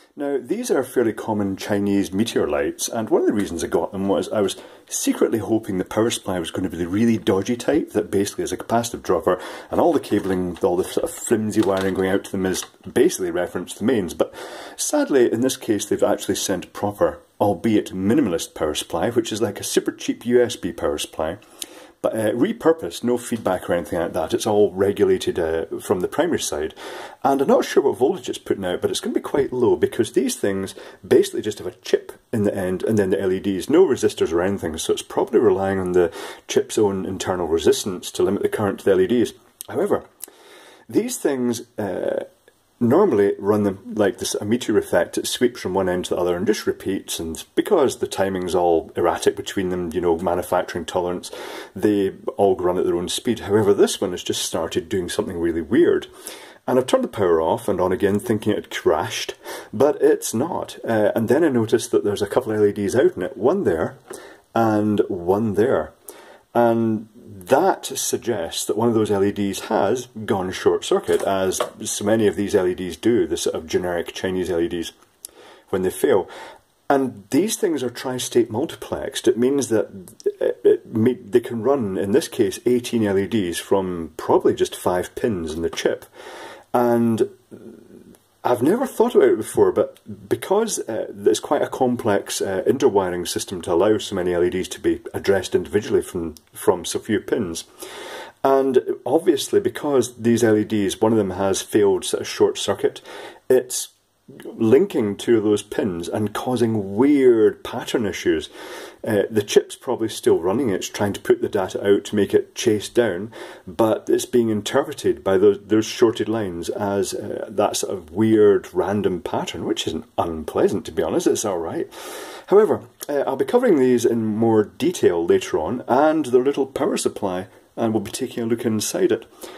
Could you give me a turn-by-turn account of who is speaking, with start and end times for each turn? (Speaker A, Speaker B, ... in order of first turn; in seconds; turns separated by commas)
Speaker A: 0.2-21.4, Speaker A: 22.0-40.0, Speaker A: 40.9-42.3, Speaker A: 42.8-56.1, Speaker A: 56.7-64.0, Speaker A: 64.5-65.9, Speaker A: 66.5-74.9, Speaker A: 75.7-76.3, Speaker A: 76.9-86.1, Speaker A: 86.7-87.8, Speaker A: 88.4-97.7, Speaker A: 98.4-108.5, Speaker A: 109.0-121.9, Speaker A: 122.5-129.3